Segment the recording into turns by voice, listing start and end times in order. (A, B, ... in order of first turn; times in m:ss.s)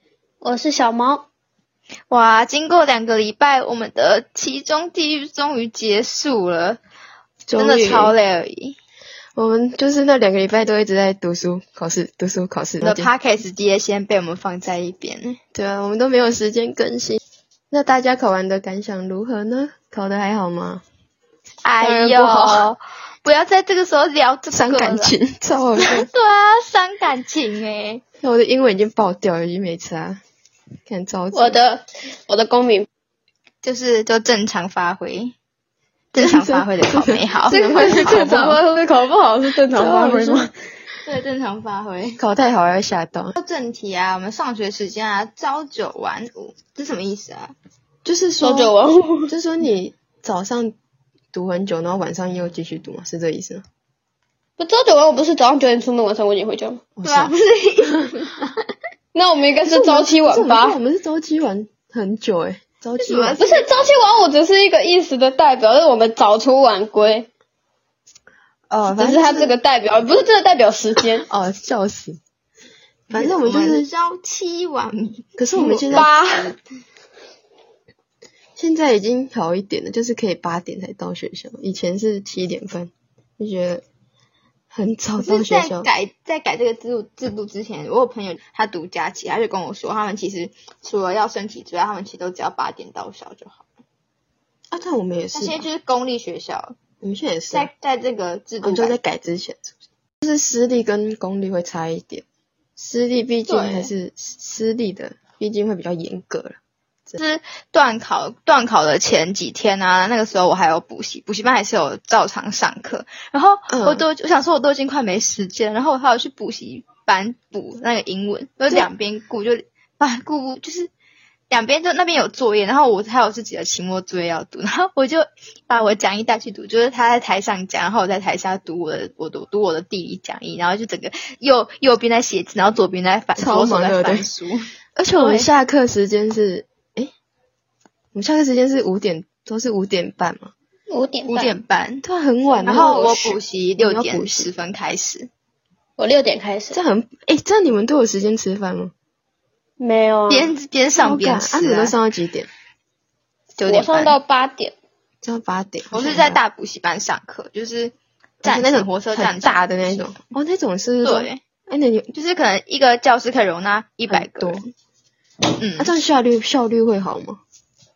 0:00.4-0:01.2 A
0:02.1-0:06.8 B
0:07.4-0:08.1 C
0:07.6-0:08.8 B
0:09.4-0:13.1 C
0:12.8-0:15.4 B
0:15.5-0:17.2 C
0:17.7-0:20.8 C
0:21.6-0:25.1 B
0:21.8-0:22.6 C
0:21.9-0:22.5 A
0:24.5-0:26.1 C
0:25.8-0:28.0 B
0:28.2-0:30.2 C
0:30.9-0:31.6 C
0:31.3-0:32.9 A
0:33.6-0:35.3 B
0:36.1-0:38.6 B
0:36.2-0:38.4 C
0:37.5-0:40.5 A
0:39.7-0:40.5 C
0:41.0-0:42.2 B
0:42.2-0:43.3 C
0:43.3-0:47.5 B
0:48.0-0:48.7 C
0:48.4-0:49.3 A
0:49.3-0:50.7 C
0:51.3-0:53.6 C
0:54.6-0:56.8 A
0:57.0-0:57.3 C
0:57.0-0:58.6 B
0:59.1-1:00.8 A
0:59.7-1:03.4 C
1:03.0-1:03.6 B
1:03.3-1:07.3 A
1:08.7-1:09.6 C
1:08.9-1:11.3 A
1:11.2-1:12.2 C
1:13.1-1:13.9 C
1:13.1-1:16.6 B
1:15.4-1:16.1 C
1:15.9-1:16.5 A
1:18.6-1:23.8 C
1:24.7-1:25.9 C
1:25.2-1:33.6 B
1:34.7-1:35.7 C
1:35.3-1:36.8 B
1:37.0-1:37.7 C
1:37.5-1:39.0 B
1:38.6-1:42.2 C
1:42.8-1:47.2 C
1:43.4-1:43.9 B
1:47.2-2:00.9 B
1:53.7-1:54.0 C
2:01.5-2:15.5 B
2:13.4-2:14.3 C
2:15.0-2:17.1 C
2:18.1-2:20.5 C
2:20.9-2:21.6 A
2:21.2-2:22.0 B
2:22.0-2:24.5 C
2:22.6-2:23.2 A
2:22.6-2:25.3 B
2:26.0-2:26.8 A
2:26.7-2:28.9 C
2:29.8-2:30.5 A
2:30.3-2:32.0 B
2:31.0-2:32.5 C
2:33.6-2:34.2 B
2:33.6-2:34.7 A
2:35.2-2:36.4 C
2:35.9-2:40.2 B
2:38.4-2:42.1 C
2:41.0-2:41.4 B
2:42.1-2:44.7 B
2:44.1-2:44.7 C
2:45.6-2:45.9 B
2:45.8-2:47.4 C